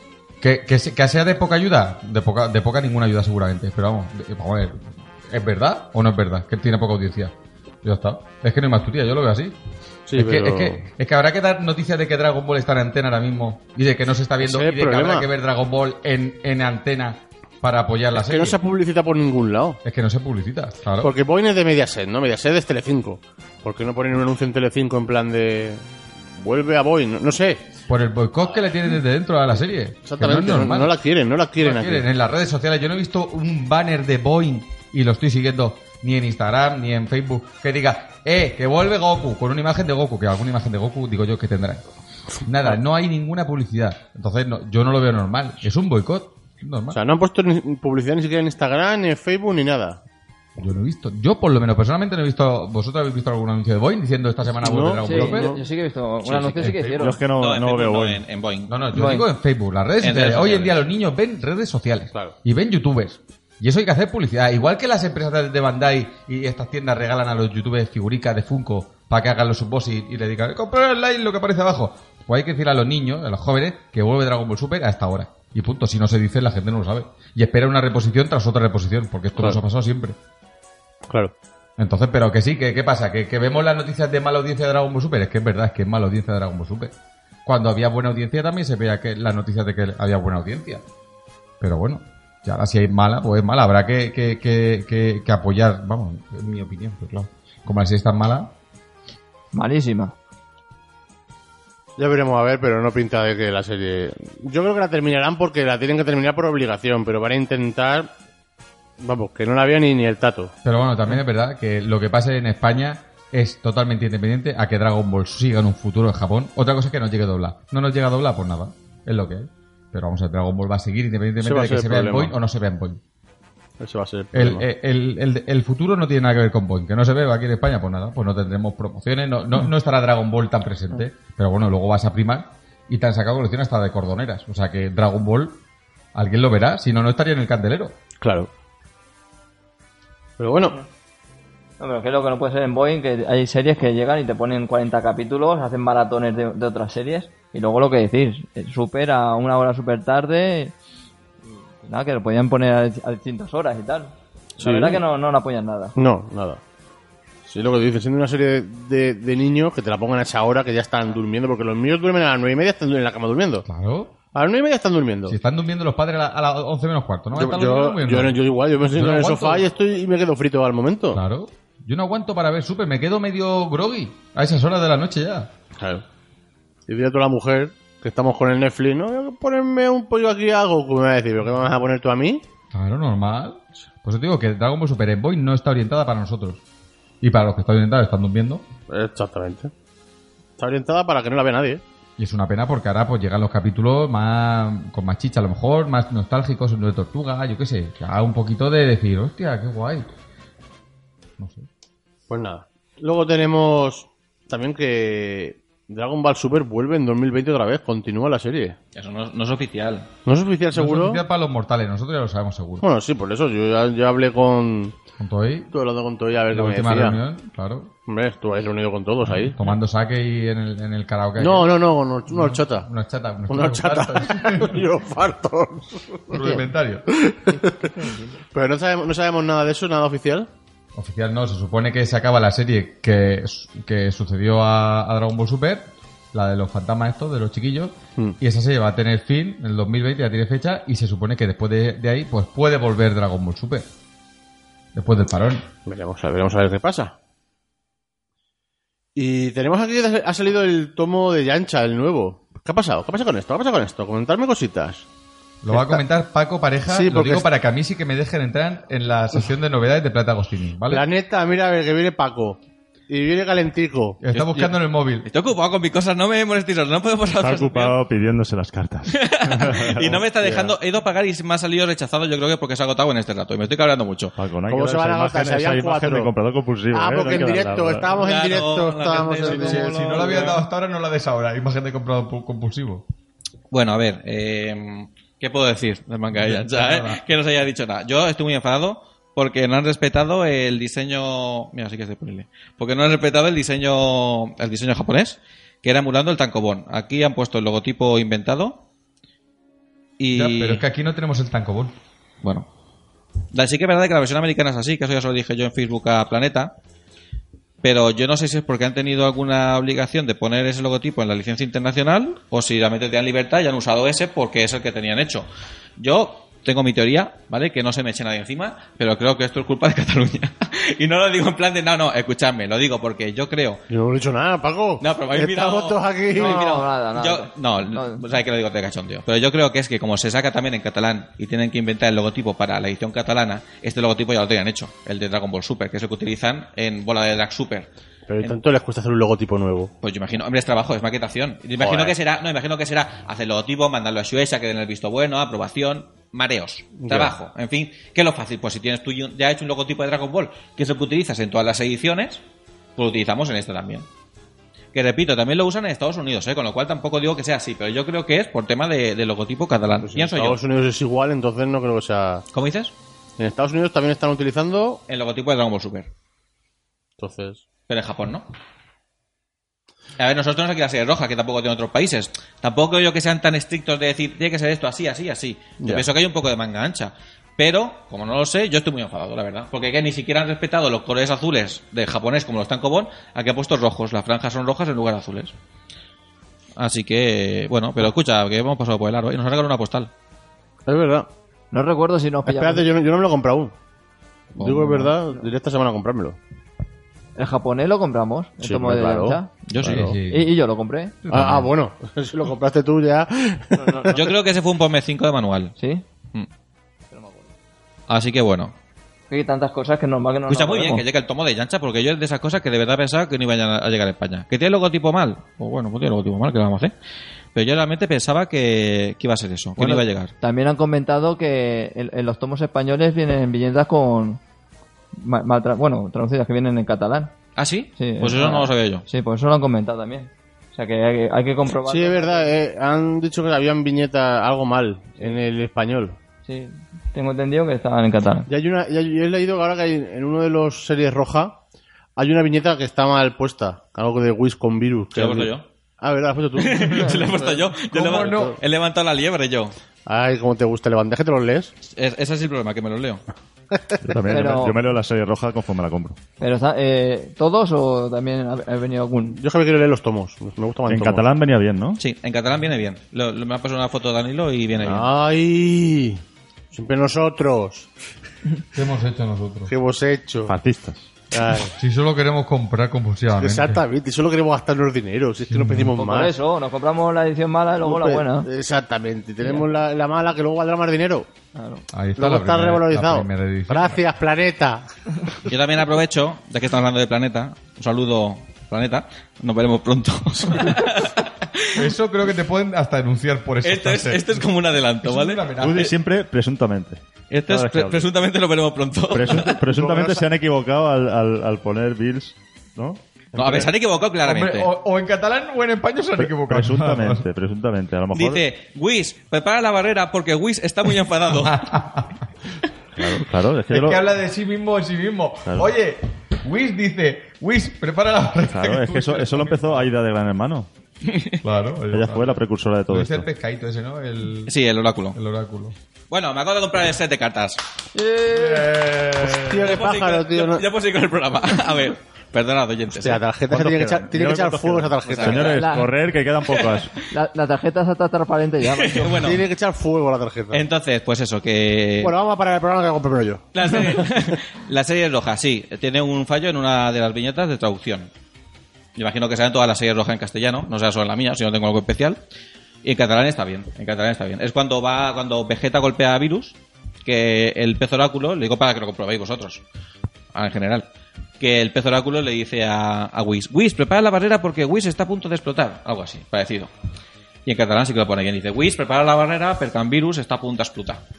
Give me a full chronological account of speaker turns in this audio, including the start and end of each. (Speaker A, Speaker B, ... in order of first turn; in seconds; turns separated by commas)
Speaker A: 0.4-9.6, Speaker B: 10.1-10.8, Speaker A: 10.1-18.6, Speaker B: 14.4-15.3, Speaker B: 18.1-19.8, Speaker A: 19.8-21.1, Speaker B: 21.0-27.6, Speaker A: 27.9-30.9, Speaker B: 30.1-32.0, Speaker A: 31.6-41.8, Speaker A: 42.4-47.0, Speaker B: 46.9-50.0, Speaker A: 50.6-55.5, Speaker B: 54.6-55.6, Speaker C: 55.0-57.2, Speaker D: 56.2-56.6, Speaker A: 56.5-57.1, Speaker E: 57.0-58.2, Speaker D: 57.3-58.7, Speaker A: 58.7-80.2, Speaker C: 58.9-59.3, Speaker D: 60.0-60.8, Speaker B: 81.1-81.3, Speaker A: 81.8-86.9, Speaker A: 87.4-90.8, Speaker A: 91.6-98.5, Speaker C: 99.5-100.1, Speaker B: 102.0-108.1, Speaker B: 109.0-110.5, Speaker A: 110.6-123.0, Speaker B: 121.4-122.3, Speaker B: 123.8-124.6, Speaker A: 124.3-135.6, Speaker A: 136.1-137.9, Speaker B: 138.2-138.5, Speaker B: 140.4-140.8, Speaker C: 141.8-150.7, Speaker C: 151.8-155.9, Speaker B: 154.6-155.0, Speaker B: 155.9-156.6, Speaker B: 157.4-163.7, Speaker A: 163.7-164.1, Speaker B: 164.3-165.4, Speaker A: 165.3-169.7, Speaker B: 167.3-171.2, Speaker A: 171.1-175.5, Speaker B: 175.8-176.0, Speaker B: 176.9-182.4, Speaker A: 182.7-186.6, Speaker A: 187.2-188.6, Speaker B: 188.9-189.7, Speaker B: 190.6-191.8, Speaker A: 192.2-200.1, Speaker A: 201.4-201.7, Speaker B: 202.3-208.8, Speaker D: 208.9-210.1, Speaker B: 210.2-211.2, Speaker A: 210.7-212.8, Speaker B: 212.8-214.9, Speaker A: 215.2-215.7, Speaker B: 215.7-217.2, Speaker A: 216.5-217.9, Speaker B: 218.1-219.6, Speaker A: 219.2-224.8, Speaker B: 221.4-222.9, Speaker B: 223.5-226.4, Speaker A: 226.3-227.1, Speaker C: 226.3-226.6, Speaker B: 227.1-227.9, Speaker C: 227.5-228.4, Speaker B: 228.5-230.5, Speaker A: 230.9-243.9, Speaker A: 244.9-245.7, Speaker B: 245.8-247.1, Speaker B: 249.1-255.0, Speaker A: 255.6-261.1, Speaker B: 255.7-256.0, Speaker B: 256.9-257.5, Speaker B: 260.9-264.2, Speaker A: 264.2-265.3, Speaker D: 264.3-267.9, Speaker E: 267.4-270.2, Speaker D: 269.1-274.3, Speaker B: 270.4-270.7, Speaker E: 274.4-278.1, Speaker B: 274.7-276.3, Speaker B: 276.9-280.5, Speaker D: 278.1-280.5, Speaker A: 279.5-283.0, Speaker D: 283.7-298.8, Speaker A: 286.3-287.2, Speaker D: 300.2-300.8, Speaker A: 300.3-301.9, Speaker D: 303.5-306.7, Speaker D: 307.8-323.8, Speaker B: 323.9-326.7, Speaker D: 325.0-337.9, Speaker C: 326.3-328.2, Speaker B: 338.3-339.9, Speaker D: 340.0-352.4, Speaker B: 341.8-342.1, Speaker B: 347.0-347.3, Speaker D: 352.9-354.1, Speaker D: 354.9-360.6, Speaker B: 360.0-362.4, Speaker D: 362.5-362.9, Speaker B: 363.4-365.0, Speaker D: 365.1-366.1, Speaker B: 367.2-367.6, Speaker D: 367.9-368.5, Speaker D: 370.2-385.5, Speaker B: 375.8-376.1, Speaker D: 386.8-390.1, Speaker B: 390.9-391.3, Speaker C: 391.7-392.9, Speaker B: 392.4-393.7, Speaker D: 394.6-395.1, Speaker B: 394.6-396.4, Speaker C: 397.4-399.5, Speaker B: 398.6-400.1, Speaker D: 399.7-400.1, Speaker A: 399.8-400.5, Speaker C: 400.3-401.1, Speaker A: 401.2-401.7, Speaker B: 401.3-404.3, Speaker C: 403.8-404.1, Speaker D: 404.1-405.7, Speaker C: 405.8-406.0, Speaker C: 407.1-407.5, Speaker D: 408.1-408.7, Speaker C: 409.3-411.0, Speaker D: 410.5-416.9, Speaker D: 417.5-420.3, Speaker C: 419.8-424.4, Speaker C: 425.1-427.3, Speaker D: 427.6-429.0, Speaker C: 428.0-432.5, Speaker B: 431.9-436.2, Speaker C: 436.4-438.5, Speaker B: 438.5-441.6, Speaker B: 442.2-448.6, Speaker D: 445.1-445.6, Speaker D: 446.6-449.8, Speaker C: 447.1-447.5, Speaker A: 447.9-448.6, Speaker B: 450.1-451.7, Speaker D: 451.8-453.2, Speaker B: 453.7-454.1, Speaker E: 454.0-456.2, Speaker C: 454.3-454.8, Speaker C: 456.4-459.4, Speaker B: 459.3-461.3, Speaker E: 460.9-462.0, Speaker D: 462.0-465.1, Speaker B: 464.8-466.2, Speaker B: 466.7-467.9, Speaker A: 468.7-469.7, Speaker B: 469.7-470.5, Speaker E: 470.5-471.1, Speaker B: 471.3-471.7, Speaker A: 471.8-473.8, Speaker B: 473.4-476.4, Speaker A: 475.5-475.9, Speaker C: 475.9-478.5, Speaker B: 477.8-481.3, Speaker C: 481.5-481.8, Speaker A: 481.9-484.0, Speaker B: 482.2-485.3, Speaker D: 485.5-491.9, Speaker A: 491.7-494.5, Speaker D: 493.6-495.9, Speaker A: 495.0-495.9, Speaker E: 495.6-498.1, Speaker D: 497.3-499.6, Speaker E: 499.1-503.0, Speaker B: 499.3-500.2, Speaker B: 503.3-503.7, Speaker D: 503.3-504.7, Speaker A: 504.2-507.2, Speaker E: 506.2-508.4, Speaker D: 508.1-511.7, Speaker A: 511.3-512.2, Speaker E: 513.0-514.0, Speaker A: 513.7-519.9, Speaker E: 518.5-520.7, Speaker D: 521.0-521.4, Speaker A: 521.4-524.5, Speaker E: 521.9-523.3, Speaker D: 524.5-525.2, Speaker A: 525.1-525.8, Speaker D: 526.1-527.6, Speaker C: 527.9-528.7, Speaker A: 528.3-529.7, Speaker B: 529.2-530.6, Speaker D: 529.6-533.2, Speaker B: 532.9-535.6, Speaker E: 533.5-536.9, Speaker D: 535.1-535.6, Speaker C: 535.5-535.9, Speaker D: 536.5-536.8, Speaker C: 537.0-539.2, Speaker D: 538.7-539.4, Speaker B: 539.0-540.6, Speaker D: 540.5-542.1, Speaker B: 542.0-543.5, Speaker D: 543.5-548.1, Speaker D: 549.0-552.2, Speaker D: 552.8-559.6, Speaker D: 560.3-560.9, Speaker D: 561.4-566.7, Speaker D: 567.5-571.0